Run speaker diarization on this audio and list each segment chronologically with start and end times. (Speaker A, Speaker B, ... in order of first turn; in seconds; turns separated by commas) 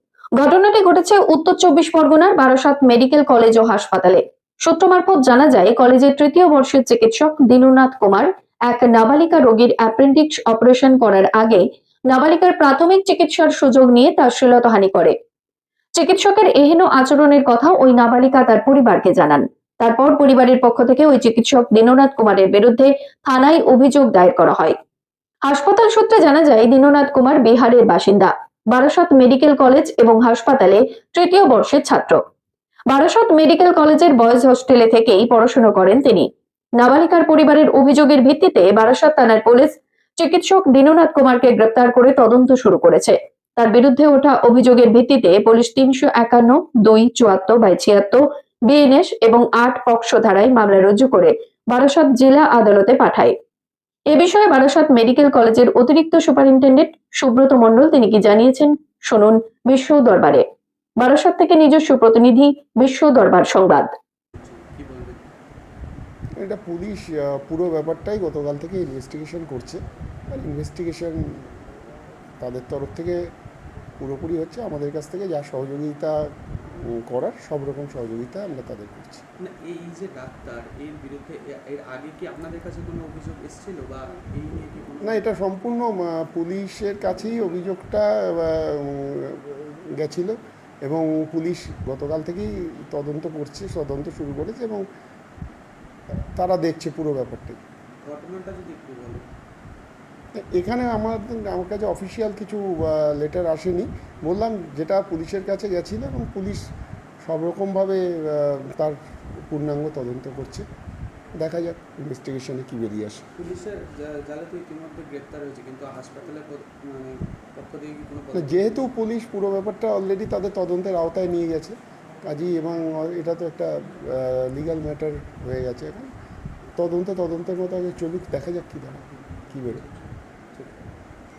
Speaker A: 0.3-15.1, Speaker A: 16.0-24.8, Speaker A: 25.5-32.2, Speaker A: 32.9-53.3, Speaker A: 54.1-60.4, Speaker A: 61.0-63.9, Speaker B: 64.3-65.3, Speaker C: 66.4-71.5, Speaker C: 72.4-73.2, Speaker C: 74.0-76.2, Speaker C: 76.8-79.2, Speaker B: 79.4-85.3, Speaker C: 85.0-94.8, Speaker C: 96.3-97.6, Speaker B: 98.0-99.2, Speaker C: 100.4-106.6, Speaker C: 107.2-110.6, Speaker C: 111.4-113.2, Speaker B: 113.3-118.9, Speaker C: 118.3-126.1, Speaker C: 126.8-129.8, Speaker B: 130.5-130.8